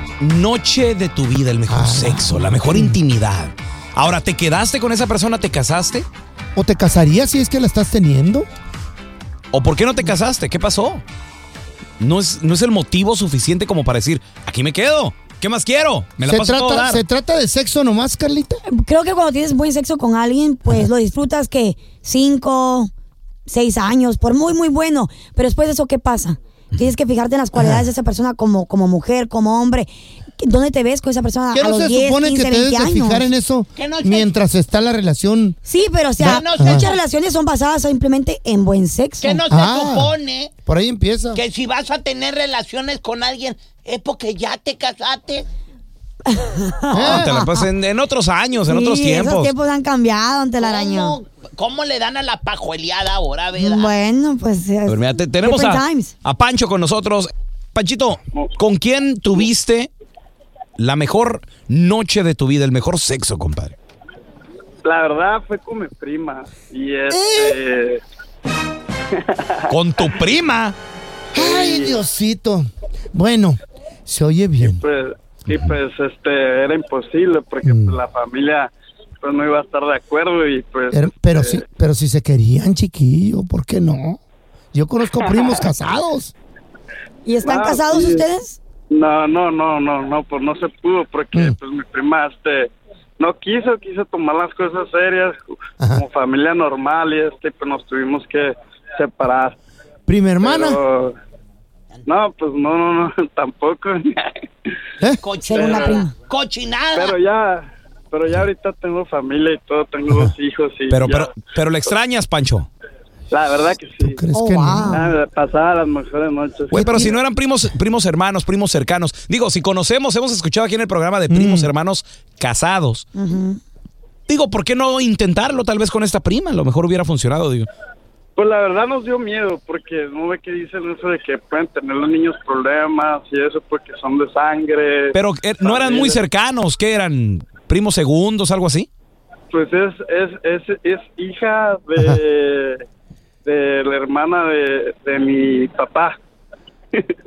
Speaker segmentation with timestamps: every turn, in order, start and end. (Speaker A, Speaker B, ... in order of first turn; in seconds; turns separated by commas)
Speaker A: 0.2-6.1, Speaker B: 1.7-3.0, Speaker B: 6.5-8.5, Speaker A: 9.5-11.0, Speaker A: 12.0-17.0, Speaker B: 16.2-18.6, Speaker C: 18.7-22.9, Speaker C: 23.5-33.3, Speaker B: 27.6-27.9, Speaker B: 31.5-35.6, Speaker D: 33.8-34.3, Speaker C: 35.7-39.4, Speaker B: 36.2-36.9, Speaker D: 36.3-36.9, Speaker D: 39.2-40.5, Speaker B: 39.5-41.4, Speaker D: 41.3-45.5, Speaker C: 46.3-47.7, Speaker B: 46.9-47.3, Speaker A: 46.9-49.5, Speaker C: 48.6-51.2, Speaker D: 50.6-53.9, Speaker C: 53.6-56.1, Speaker A: 54.9-59.9, Speaker A: 60.8-63.8, Speaker E: 64.8-68.0, Speaker B: 67.1-67.6, Speaker E: 69.1-69.7, Speaker A: 69.7-70.8, Speaker E: 71.3-72.0, Speaker B: 71.3-74.8, Speaker E: 74.6-81.6, Speaker A: 75.5-75.8, Speaker B: 77.6-78.0, Speaker B: 80.9-84.2, Speaker B: 84.7-86.3, Speaker C: 87.2-88.6, Speaker E: 87.4-88.2, Speaker E: 88.9-99.6, Speaker B: 95.8-96.0, Speaker B: 100.1-100.8, Speaker E: 100.4-101.2, Speaker E: 102.1-104.4, Speaker D: 105.2-107.2, Speaker C: 105.4-106.1, Speaker E: 105.5-106.0, Speaker E: 107.0-111.3, Speaker A: 110.9-112.7, Speaker E: 113.3-114.2, Speaker B: 114.0-115.0, Speaker C: 114.3-115.1, Speaker E: 114.9-116.8, Speaker B: 116.7-117.2, Speaker A: 116.7-123.1, Speaker B: 121.3-121.7, Speaker C: 123.2-123.6, Speaker A: 124.3-127.7, Speaker E: 128.4-136.2, Speaker A: 135.1-138.9, Speaker E: 139.5-142.8, Speaker E: 143.4-146.2